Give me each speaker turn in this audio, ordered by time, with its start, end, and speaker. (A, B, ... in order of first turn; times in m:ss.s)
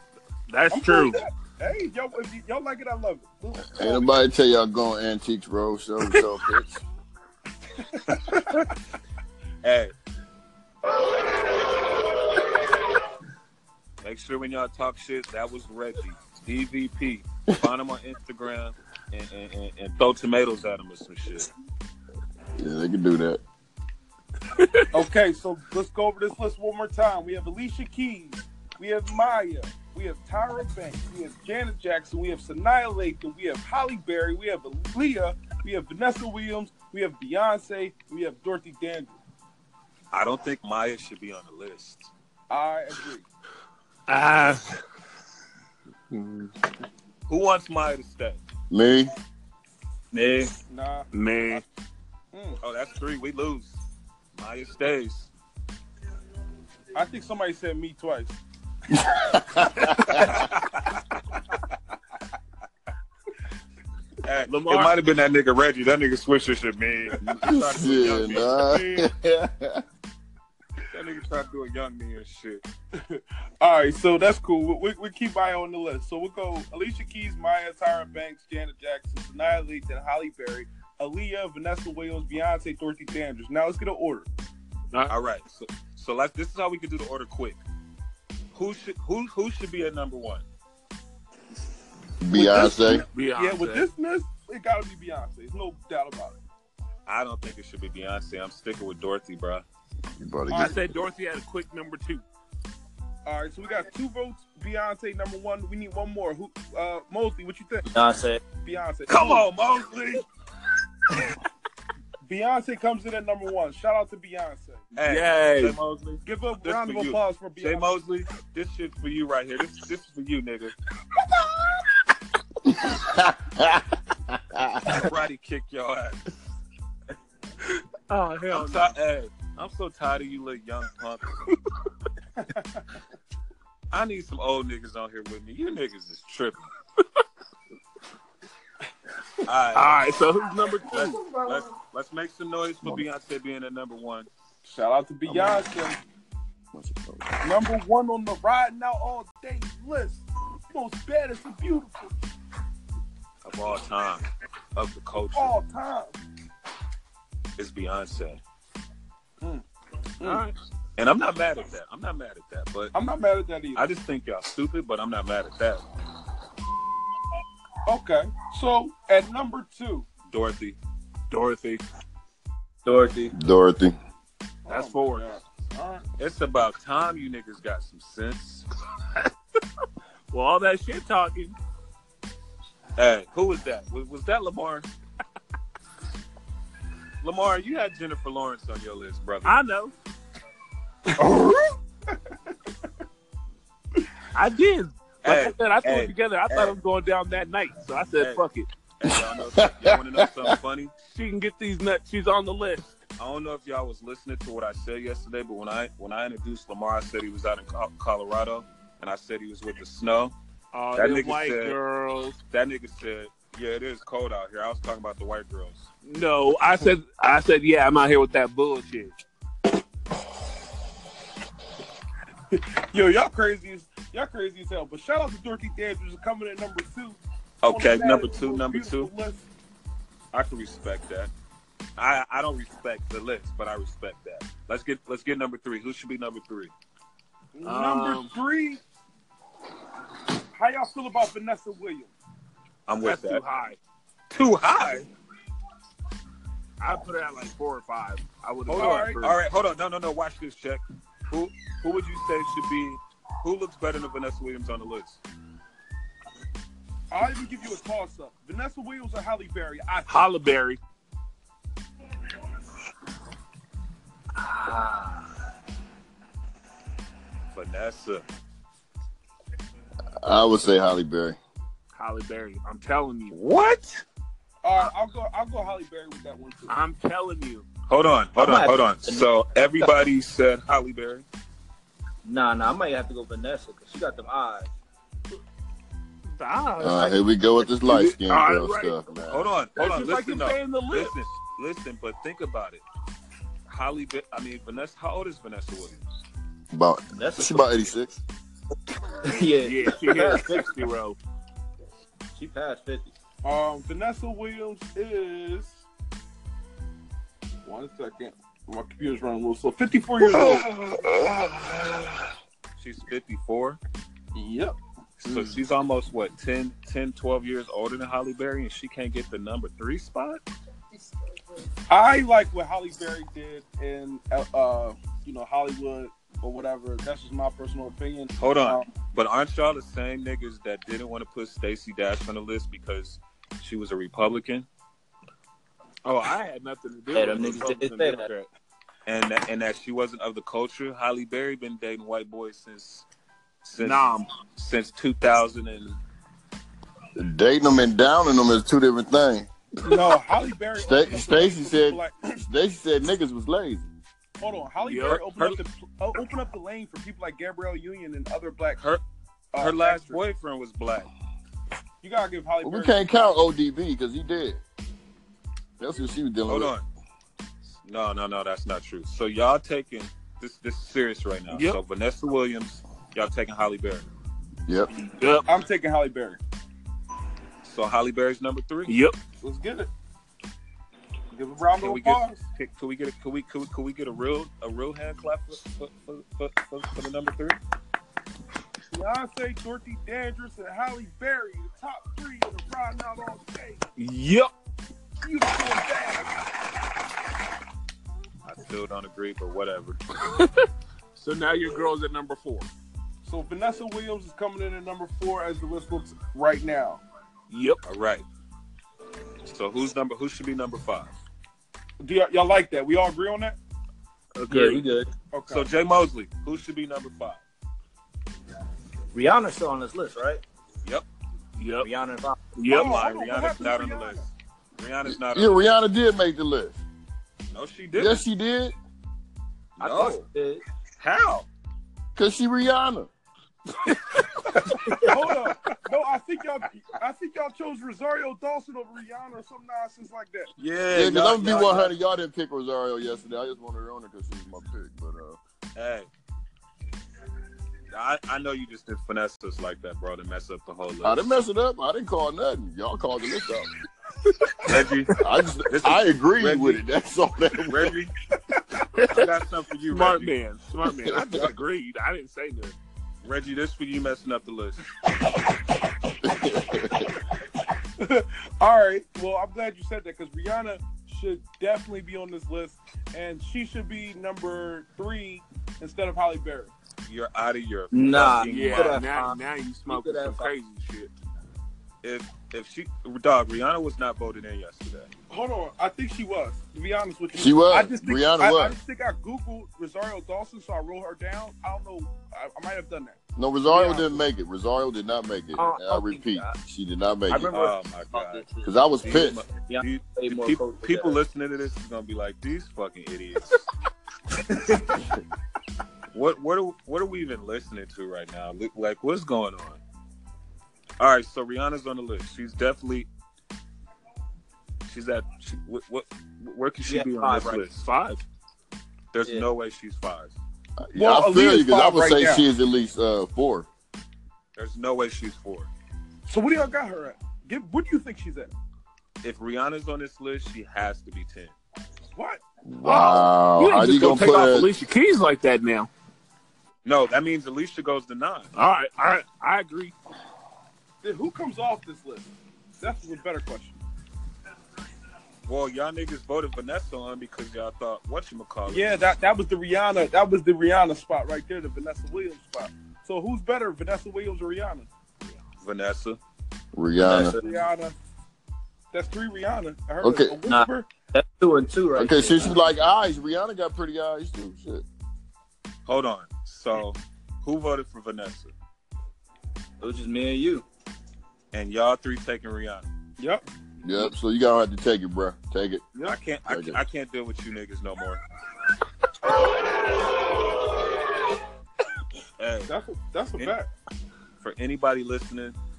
0:00.5-0:01.2 A
0:00.7-0:04.1 B
0:03.7-0:06.8 C
0:09.6-0:09.9 D
0:14.0-0:21.5 D
0:22.6-0:23.4 C
0:24.5-0:24.9 A
0:24.9-0:39.1 B
0:40.1-0:42.1 D
0:42.5-0:43.2 B
0:44.1-0:44.8 A
0:46.1-0:46.5 A
0:47.3-0:48.4 D
0:48.7-0:49.1 C
0:50.1-0:50.5 E
0:50.7-0:51.6 B
0:51.1-0:51.6 A
0:52.3-0:52.6 B
0:52.6-0:53.8 D
0:54.4-0:55.3 D
0:56.9-0:58.4 B
0:58.9-1:00.4 C
1:00.1-1:01.0 D
1:04.2-1:09.1 D
1:04.5-1:04.9 A
1:07.2-1:09.8 C
1:10.9-1:12.6 D
1:13.0-1:24.3 B
1:25.1-1:27.6 D
1:28.5-1:30.4 D
1:32.2-1:33.0 C
1:32.3-1:36.4 B
1:33.1-1:33.8 A
1:37.0-1:39.6 D
1:40.2-1:40.9 C
1:40.5-1:42.2 A
1:43.2-1:47.8 B
1:47.9-1:48.4 E
1:48.6-1:49.5 B
1:49.1-1:50.2 D
1:52.2-1:54.8 B
1:54.9-2:00.7 D
1:55.0-1:55.8 A
1:56.2-1:57.9 B
2:02.8-2:05.0 C
2:04.9-2:06.2 D
2:08.1-2:08.9 A
2:08.5-2:11.4 D
2:12.4-2:12.8 B
2:13.9-2:16.6 D
2:19.4-2:20.1 D
2:19.7-2:21.3 A
2:20.8-2:24.3 D
2:21.0-2:21.5 B
2:24.6-2:26.0 B
2:25.2-2:25.7 C
2:26.7-2:27.4 C
2:27.4-2:32.1 B
2:33.4-2:35.5 D
2:35.3-2:36.1 B
2:37.6-2:38.4 D
2:40.2-2:40.5 B
2:40.2-2:40.5 A
2:41.0-2:42.9 D
2:42.9-2:43.8 B
2:43.7-2:45.8 D
2:47.8-2:50.0 B
2:50.3-2:50.8 D
2:51.3-2:51.8 A
2:52.8-2:53.3 E
2:53.3-2:54.0 C
2:54.6-2:56.0 B
2:54.7-2:55.2 A
2:56.2-2:58.6 D
3:00.3-3:01.6 A
3:03.0-3:04.9 D
3:07.2-3:09.6 D
3:09.4-3:09.9 A
3:11.2-3:11.6 B
3:14.3-3:18.7 A
3:15.2-3:16.8 D
3:18.2-3:18.4 D
3:19.0-3:20.9 D
3:19.1-3:20.5 C
3:21.0-3:23.0 A
3:23.2-3:30.3 D
3:30.7-3:32.4 A
3:30.9-3:31.8 D
3:32.5-3:35.9 D
3:36.0-3:39.1 A
3:42.5-3:49.4 B
3:47.6-3:49.1 D
3:50.3-3:51.3 D
3:52.0-3:56.7 D
3:57.5-3:58.8 B
3:57.6-3:58.3 A
4:00.5-4:02.1 B
4:02.9-4:03.4 D
4:03.0-4:03.8 A
4:04.3-4:05.1 D
4:06.8-4:09.4 A
4:08.7-4:09.2 B
4:08.7-4:15.2 D
4:17.1-4:20.2 B
4:20.1-4:20.8 A
4:24.4-4:25.2 E
4:27.5-4:28.2 D
4:30.2-4:31.4 C
4:31.9-4:33.3 A
4:33.3-4:34.0 D
4:34.6-4:36.7 B
4:36.7-4:37.6 A
4:37.9-4:41.2 D
4:38.4-4:39.3 E
4:42.2-4:44.7 E
4:46.3-4:49.0 A
4:46.8-4:49.5 C
4:49.3-4:52.8 D
4:49.7-4:51.2 A
4:53.7-4:56.0 D
4:56.7-4:58.2 C
4:57.1-4:57.7 E
4:59.2-5:00.8 E
4:59.6-5:01.2 A
5:02.3-5:03.1 E
5:03.4-5:05.8 B
5:07.6-5:10.9 B
5:12.8-5:13.8 D
5:14.3-5:14.7 B
5:15.2-5:20.4 D
5:21.9-5:28.9 B
5:28.4-5:34.7 D
5:36.0-5:38.5 A
5:37.1-5:38.3 E
5:39.0-5:43.0 D
5:43.6-5:46.0 D
5:43.8-5:44.3 A
5:47.2-5:49.5 C
5:49.8-5:52.3 B
5:50.8-5:53.9 C
5:54.4-5:58.8 B
5:54.8-5:55.2 A
5:55.0-5:55.6 D
5:58.8-5:59.0 D
5:59.5-6:00.2 B
5:59.6-6:01.1 D
6:02.0-6:03.2 B
6:02.6-6:04.6 C
6:05.8-6:06.7 C
6:06.5-6:06.8 D
6:07.8-6:14.1 D
6:11.5-6:11.8 A
6:15.1-6:15.4 A
6:15.4-6:16.4 B
6:17.6-6:18.9 D
6:18.9-6:19.2 A
6:19.4-6:19.9 B
6:21.3-6:22.4 B
6:21.8-6:27.6 D
6:28.9-6:33.8 B
6:34.0-6:34.5 A
6:35.2-6:36.3 B
6:38.4-6:40.0 D
6:40.3-6:40.6 A
6:41.2-6:42.7 A
6:43.2-6:47.0 B
6:47.5-6:47.8 A
6:47.8-6:48.2 D
6:49.4-6:51.1 D
6:52.0-6:53.6 B
6:54.4-6:54.8 A
6:54.5-6:55.1 E
6:55.3-6:55.7 B
6:55.5-6:57.4 D
6:59.1-7:00.4 E
7:01.6-7:01.9 A
7:01.8-7:02.4 E
7:02.5-7:03.0 A
7:02.7-7:04.3 B
7:02.7-7:05.8 D
7:05.1-7:06.8 C
7:07.5-7:08.2 D
7:08.0-7:08.7 C
7:09.8-7:10.2 D
7:09.8-7:10.6 E
7:11.0-7:11.5 D
7:12.2-7:13.1 C
7:14.9-7:20.5 B
7:20.6-7:21.9 D
7:20.9-7:25.4 C
7:25.8-7:26.1 D
7:27.9-7:31.3 D
7:31.0-7:33.7 C
7:34.6-7:35.1 D
7:35.2-7:37.9 C
7:35.7-7:36.8 D
7:37.6-7:38.1 D
7:38.9-7:39.2 A
7:39.1-7:40.3 D
7:39.9-7:42.8 A
7:41.1-7:41.4 C
7:43.2-7:44.8 D
7:46.2-7:47.1 C
7:48.0-7:56.7 B
7:57.0-7:59.0 D
7:57.9-8:00.5 E
7:58.4-8:01.1 A
8:02.0-8:05.1 D
8:05.3-8:14.2 B
8:07.3-8:08.8 C
8:13.4-8:17.5 C
8:15.5-8:16.6 E
8:17.3-8:21.2 E
8:17.5-8:18.4 D
8:18.6-8:19.4 C
8:19.0-8:23.6 D
8:26.1-8:29.8 D
8:31.0-8:33.1 D
8:34.8-8:37.8 D
8:36.8-8:37.6 E
8:37.7-8:38.2 A
8:39.1-8:40.4 D
8:40.8-8:43.7 C
8:41.0-8:42.4 B
8:44.6-8:45.7 D
8:46.2-8:48.5 B
8:49.2-8:51.6 D
8:52.1-8:52.4 B
8:52.6-8:54.7 C
8:52.8-8:55.9 A
8:56.8-8:58.5 D
8:58.5-8:59.9 A
9:01.0-9:03.8 B
9:05.4-9:09.0 D
9:08.7-9:14.9 B
9:15.6-9:16.2 D
9:16.7-9:17.4 C
9:17.0-9:17.6 E
9:17.4-9:17.9 B
9:18.9-9:20.9 B
9:20.0-9:20.4 C
9:20.5-9:22.7 E
9:21.9-9:24.8 C
9:25.8-9:28.5 D
9:29.8-9:30.6 E
9:31.5-9:32.9 D
9:33.2-9:33.4 B
9:33.8-9:35.8 C
9:36.0-9:38.2 D
9:36.4-9:36.8 C
9:42.4-9:42.7 D
9:42.7-9:43.7 B
9:44.4-9:45.6 D